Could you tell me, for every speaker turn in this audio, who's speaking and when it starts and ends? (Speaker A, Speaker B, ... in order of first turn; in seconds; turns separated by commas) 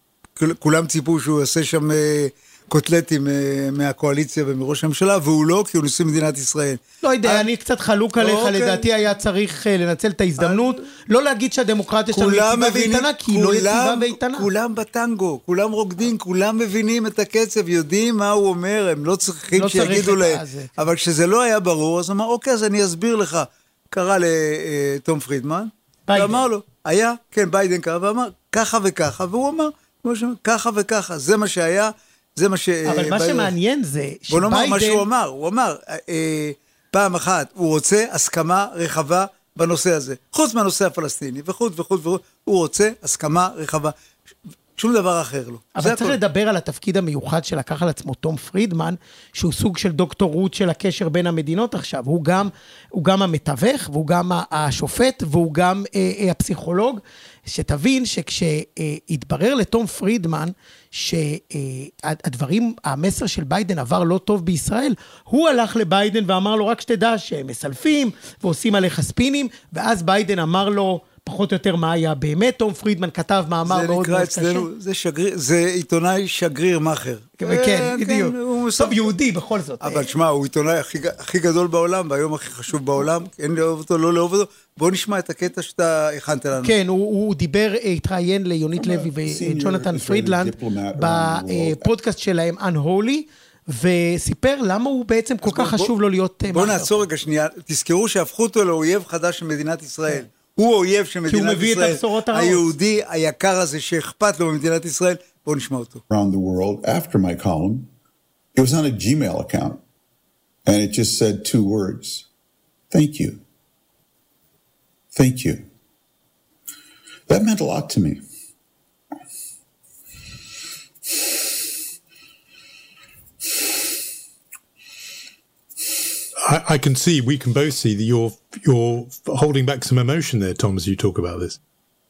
Speaker A: 0.4-7.5, Speaker B: 7.0-14.5, Speaker A: 8.2-8.9, Speaker A: 10.4-10.8, Speaker A: 12.1-33.5, Speaker B: 19.5-20.7, Speaker B: 26.1-26.4, Speaker B: 32.9-35.0, Speaker A: 34.3-43.9, Speaker A: 44.8-46.2, Speaker B: 45.8-74.7, Speaker A: 73.7-79.1, Speaker B: 77.4-80.1, Speaker A: 79.8-86.7, Speaker B: 86.6-96.9, Speaker C: 88.8-91.9, Speaker A: 95.5-95.9, Speaker A: 96.5-106.0, Speaker B: 101.3-102.6, Speaker C: 106.1-107.9, Speaker C: 108.5-109.8, Speaker C: 110.7-112.2, Speaker C: 112.9-113.4, Speaker C: 115.1-115.7, Speaker C: 117.3-118.2, Speaker D: 126.4-131.6